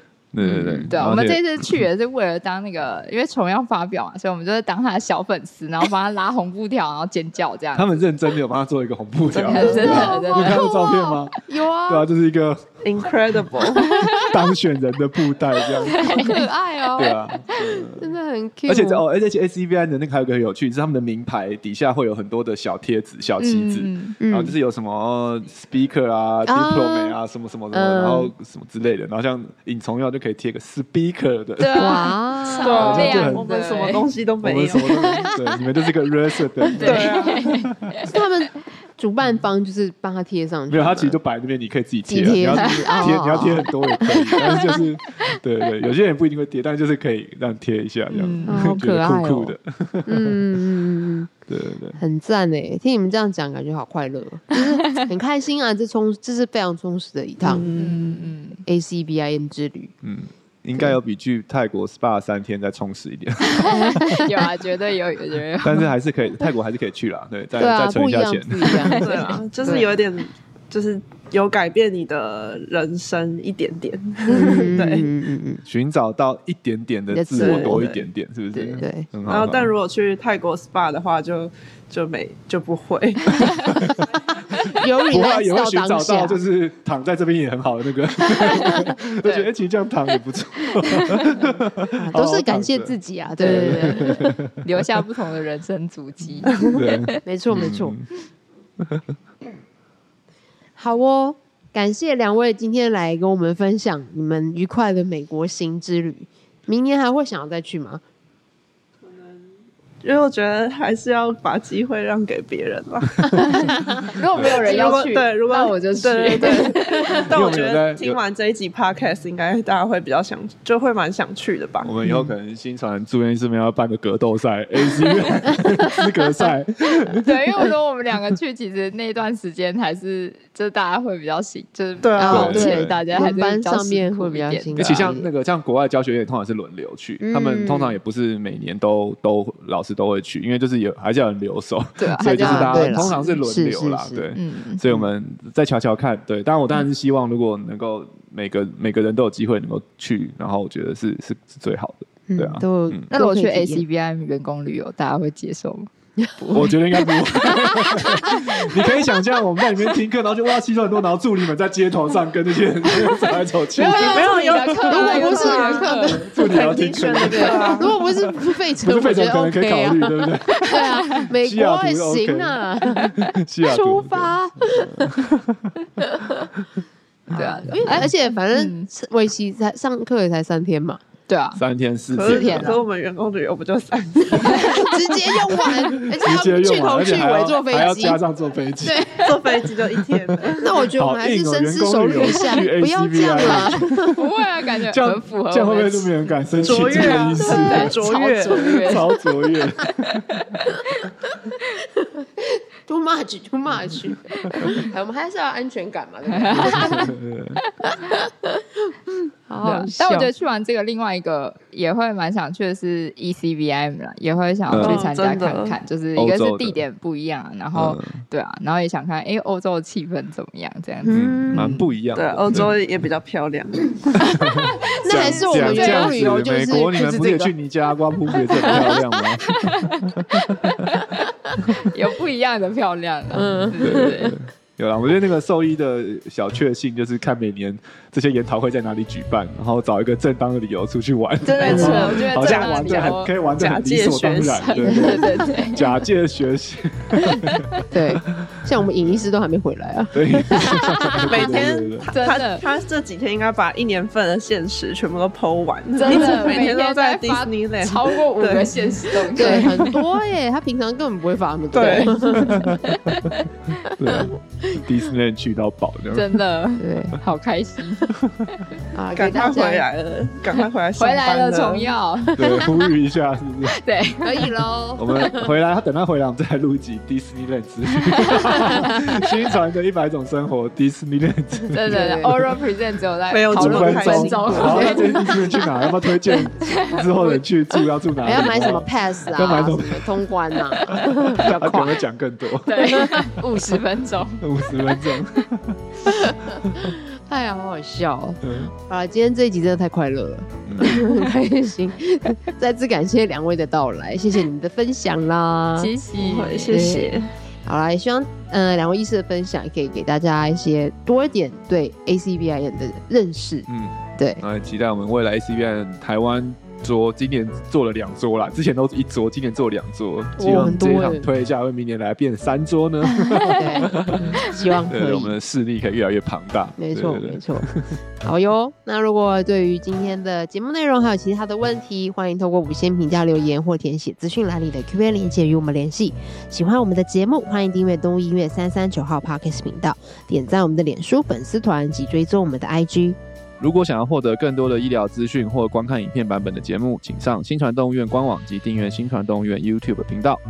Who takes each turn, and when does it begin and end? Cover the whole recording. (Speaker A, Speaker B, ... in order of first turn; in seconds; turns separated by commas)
Speaker A: 0.3-1.8, Speaker B: 0.4-0.9, Speaker C: 0.9-8.0, Speaker A: 7.7-13.5, Speaker D: 9.3-10.2, Speaker C: 9.5-10.8, Speaker B: 9.6-12.1, Speaker D: 12.8-13.9, Speaker C: 13.8-14.3, Speaker A: 14.1-16.4, Speaker B: 15.8-19.0, Speaker C: 15.8-16.4, Speaker A: 16.9-18.1, Speaker A: 18.7-32.0, Speaker C: 23.4-24.1, Speaker B: 24.2-24.6, Speaker B: 26.4-27.1, Speaker B: 27.7-28.3, Speaker C: 31.6-34.0, Speaker B: 31.8-33.0, Speaker D: 32.6-35.2, Speaker A: 32.7-33.4, Speaker A: 34.4-37.9, Speaker B: 34.8-35.6, Speaker C: 36.8-38.1, Speaker D: 36.8-37.4, Speaker B: 38.0-41.2, Speaker A: 40.7-50.4, Speaker B: 42.1-44.8, Speaker C: 48.1-48.8, Speaker B: 48.4-51.3, Speaker A: 51.5-52.0, Speaker B: 52.0-57.7, Speaker C: 54.5-55.1, Speaker D: 57.4-58.2, Speaker C: 57.8-58.6, Speaker B: 58.6-59.9, Speaker A: 60.0-64.4, Speaker C: 63.5-65.9, Speaker A: 65.6-69.0, Speaker B: 67.5-69.9, Speaker C: 68.7-69.4, Speaker D: 69.0-75.1, Speaker B: 74.3-75.6, Speaker A: 75.6-79.7, Speaker B: 77.1-77.9, Speaker D: 77.3-78.0, Speaker B: 78.5-79.1, Speaker D: 79.3-83.7, Speaker A: 83.5-84.1, Speaker B: 84.7-86.4, Speaker A: 85.0-94.8, Speaker C: 88.3-89.5, Speaker C: 90.9-91.4, Speaker B: 91.9-94.4, Speaker C: 93.4-97.2, Speaker A: 96.6-98.1, Speaker B: 97.2-97.9, Speaker B: 100.8-108.0, Speaker D: 110.0-121.9, Speaker C: 114.0-117.3, Speaker A: 117.3-118.2, Speaker A: 121.8-127.6, Speaker B: 122.0-122.3, Speaker C: 127.2-135.1, Speaker A: 132.1-133.0, Speaker B: 132.2-135.3, Speaker A: 134.8-153.1, Speaker B: 137.2-138.0, Speaker C: 142.0-143.3, Speaker B: 142.3-144.2, Speaker C: 144.3-144.8, Speaker B: 152.3-153.8, Speaker C: 153.1-155.9, Speaker B: 156.2-156.8, Speaker C: 156.4-156.7, Speaker A: 156.5-164.7, Speaker B: 157.3-158.6, Speaker C: 158.2-158.4, Speaker C: 163.7-166.2, Speaker D: 163.9-167.9, Speaker B: 164.1-166.3, Speaker A: 166.1-175.7, Speaker B: 167.2-173.1, Speaker C: 170.7-171.3, Speaker B: 173.7-175.2, Speaker B: 176.1-176.5, Speaker C: 177.3-178.9, Speaker B: 177.3-181.0, Speaker A: 177.4-178.1, Speaker C: 181.3-181.6, Speaker A: 181.6-182.8, Speaker D: 182.1-184.9, Speaker C: 182.2-182.8, Speaker C: 184.4-184.9, Speaker B: 184.5-188.2, Speaker A: 185.5-189.2, Speaker B: 188.8-189.4, Speaker D: 189.2-190.8, Speaker B: 190.6-194.2, Speaker A: 190.9-194.2, Speaker C: 194.0-199.2, Speaker A: 194.9-197.9, Speaker D: 196.5-199.0, Speaker A: 198.6-200.6, Speaker C: 199.9-201.0, Speaker B: 202.0-207.1, Speaker C: 204.5-204.8, Speaker C: 206.3-207.1, Speaker A: 206.5-207.6, Speaker B: 207.8-210.3, Speaker C: 209.6-221.7, Speaker A: 214.7-215.1, Speaker D: 214.8-215.8, Speaker A: 216.2-216.8, Speaker A: 217.7-218.2, Speaker B: 221.0-221.8, Speaker A: 221.1-222.7, Speaker D: 222.1-224.0, Speaker A: 224.2-230.7, Speaker C: 224.2-226.2, Speaker B: 225.0-227.5, Speaker C: 228.6-230.0, Speaker B: 228.7-229.0, Speaker C: 230.7-231.3, Speaker C: 231.8-234.3, Speaker B: 233.3-234.3, Speaker A: 233.8-247.7, Speaker C: 241.4-243.3, Speaker D: 241.6-245.2, Speaker B: 241.7-242.0, Speaker C: 244.6-245.8, Speaker C: 247.3-247.7, Speaker B: 247.9-251.3, Speaker A: 250.1-252.1, Speaker C: 250.6-251.2, Speaker D: 251.2-259.9, Speaker C: 252.1-252.6, Speaker C: 255.9-259.9, Speaker B: 259.3-262.8, Speaker D: 261.7-262.2, Speaker C: 261.8-262.1, Speaker A: 262.3-263.3, Speaker C: 262.7-263.4, Speaker A: 263.9-266.4, Speaker B: 264.0-264.8, Speaker C: 266.1-268.2, Speaker B: 266.8-267.2, Speaker B: 268.9-269.9, Speaker D: 269.1-271.9, Speaker C: 271.0-272.7, Speaker A: 272.3-273.8, Speaker C: 273.7-274.5, Speaker B: 274.2-275.5, Speaker A: 275.0-282.4, Speaker C: 278.3-279.3, Speaker C: 281.7-287.8, Speaker B: 281.9-282.3, Speaker D: 283.3-284.9, Speaker A: 283.5-290.3, Speaker B: 288.2-292.0, Speaker C: 290.7-291.0, Speaker A: 290.9-293.2, Speaker C: 292.6-294.4, Speaker B: 292.8-293.4, Speaker A: 294.4-297.0, Speaker B: 296.0-305.9, Speaker A: 298.4-298.7, Speaker A: 300.6-301.0, Speaker C: 300.8-301.2, Speaker C: 305.8-307.1, Speaker D: 306.2-307.3, Speaker B: 306.7-307.1, Speaker B: 307.6-313.7, Speaker A: 313.7-328.0, Speaker B: 320.4-321.3, Speaker B: 323.5-325.3, Speaker B: 326.8-327.7, Speaker B: 328.2-343.2, Speaker A: 343.6-350.4